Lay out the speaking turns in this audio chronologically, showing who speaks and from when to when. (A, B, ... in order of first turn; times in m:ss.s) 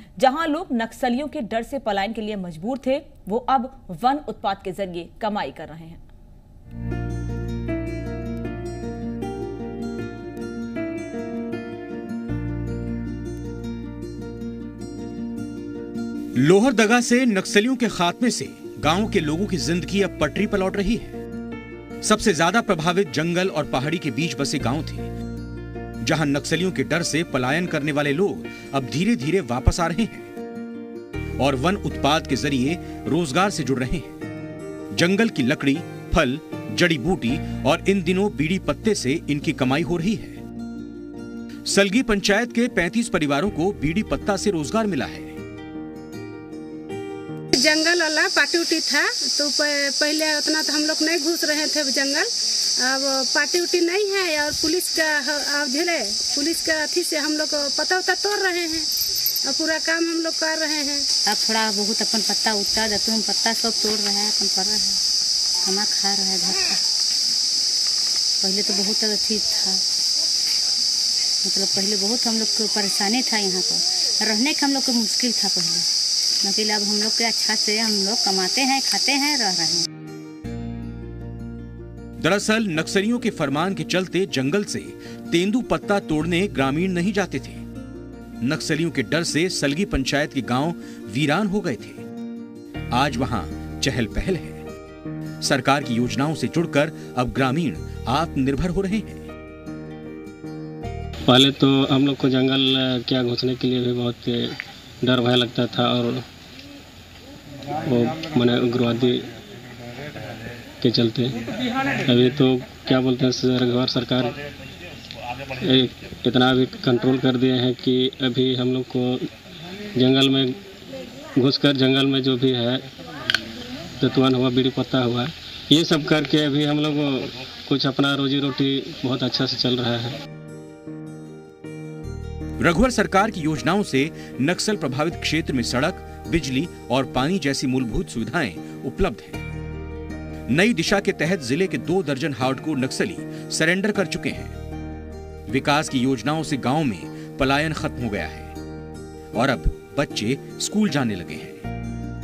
0:00.2-0:06.0 A
0:16.4-0:21.2 B
0:22.0-0:25.1 B
0:26.0-0:30.3 B
0:31.4-0:34.2 B
0:35.0-0:40.4 B
0:41.7-0:45.4 B
0:47.5-0:58.9 C
0:59.4-1:01.1 C
1:01.3-1:05.0 D
1:05.6-1:06.8 D
1:08.4-1:09.8 D
1:11.4-1:15.9 D
1:16.4-1:19.9 D
1:22.2-1:27.6 B
1:28.4-1:32.0 B
1:32.9-1:34.6 B
1:35.4-1:39.3 B
1:41.3-1:46.2 E
1:47.9-1:49.3 E
1:50.8-1:51.4 E
1:52.1-1:54.4 E
1:55.6-1:59.3 E
2:00.0-2:00.6 E
2:01.4-2:02.8 E
2:04.0-2:10.2 E
2:12.6-2:19.4 B
2:20.5-2:24.6 B
2:25.5-2:28.5 B
2:29.4-2:31.6 B